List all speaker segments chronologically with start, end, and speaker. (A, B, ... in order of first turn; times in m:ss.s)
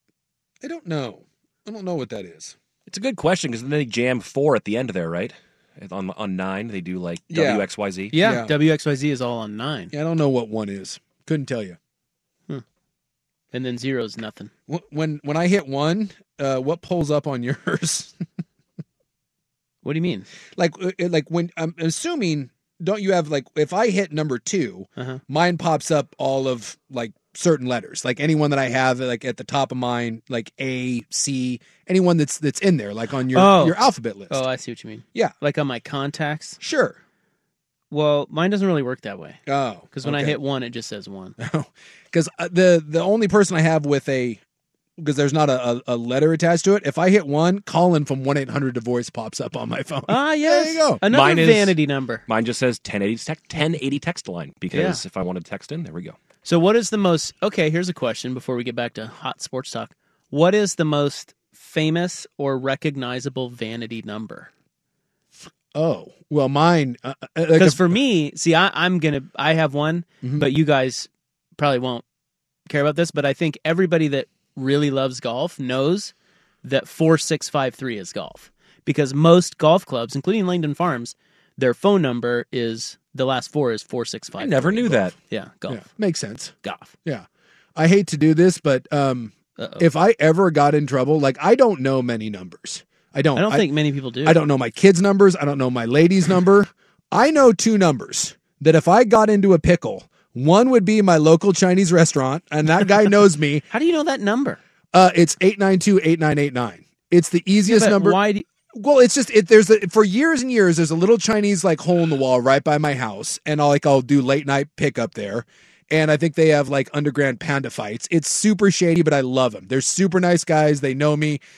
0:00.6-0:02.6 A
0:02.9-0:08.1 B
0:07.3-0:08.5 A
0:08.1-0:09.9 C
0:09.9-0:11.8 A
0:13.5-0:14.5 C
0:14.7-0:18.2 A
0:19.8-0:20.3 C
0:20.6-0:34.4 A
0:33.3-0:36.6 C
0:36.6-0:37.0 A
0:37.9-0:39.4 C
0:39.5-0:40.4 A
0:39.9-0:41.4 C
0:41.4-0:44.4 A
0:45.0-0:51.0 A
0:50.1-0:52.2 C
0:51.1-0:51.7 B
0:52.3-0:56.2 B
0:54.7-0:55.0 C
0:56.4-1:04.5 C
1:05.4-1:08.0 A
1:07.5-1:12.0 C
1:10.2-1:10.5 A
1:12.7-1:16.1 C
1:16.6-1:25.8 C
1:24.4-1:25.1 B
1:25.7-1:26.5 A
1:26.6-1:26.9 C
1:27.0-1:33.7 A
1:29.6-1:29.9 C
1:33.4-1:34.4 C
1:34.2-1:43.6 A
1:43.7-1:44.6 C
1:44.9-1:48.2 A
1:47.6-1:48.5 C
1:48.7-2:01.4 A